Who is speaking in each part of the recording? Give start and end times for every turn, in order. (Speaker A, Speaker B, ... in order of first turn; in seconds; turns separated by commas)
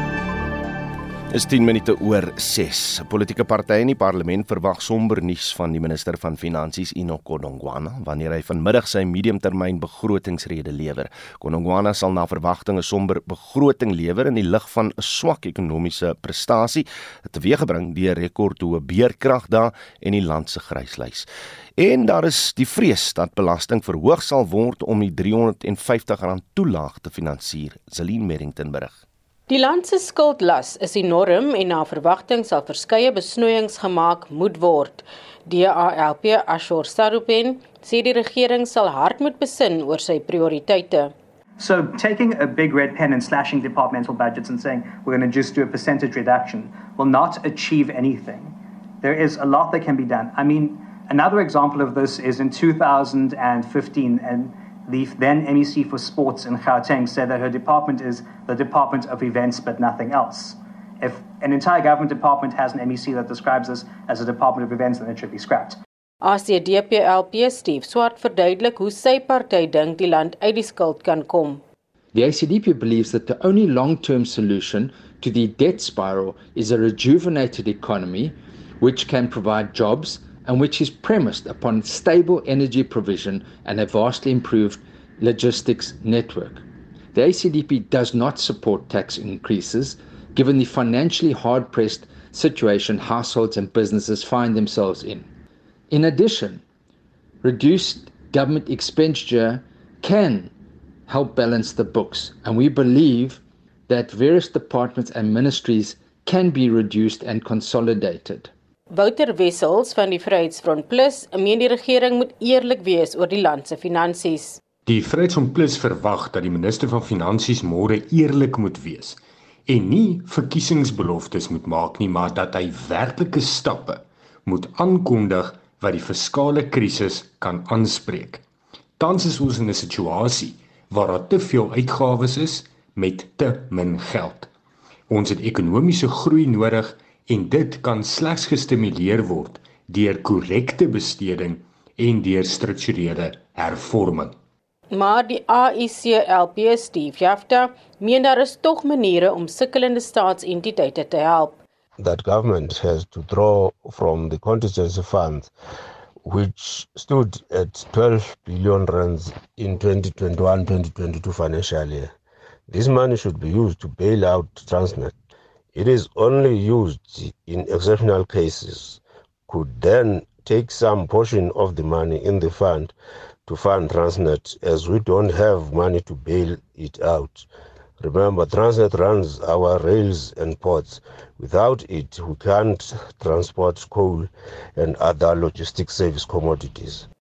Speaker A: 1.3-29.0, Speaker B: 29.5-41.1, Speaker C: 41.6-65.8, Speaker B: 66.2-71.6, Speaker D: 72.1-95.3, Speaker D: 95.9-96.6, Speaker D: 97.4-100.5, Speaker D: 101.1-108.5, Speaker B: 108.9-114.6, Speaker E: 114.9-128.4, Speaker E: 129.0-134.5, Speaker E: 135.1-144.4, Speaker B: 144.9-151.6, Speaker F: 152.0-155.5, Speaker F: 156.2-162.1, Speaker F: 162.7-165.2, Speaker F: 165.7-172.9, Speaker F: 173.4-177.5, Speaker F: 178.0-187.1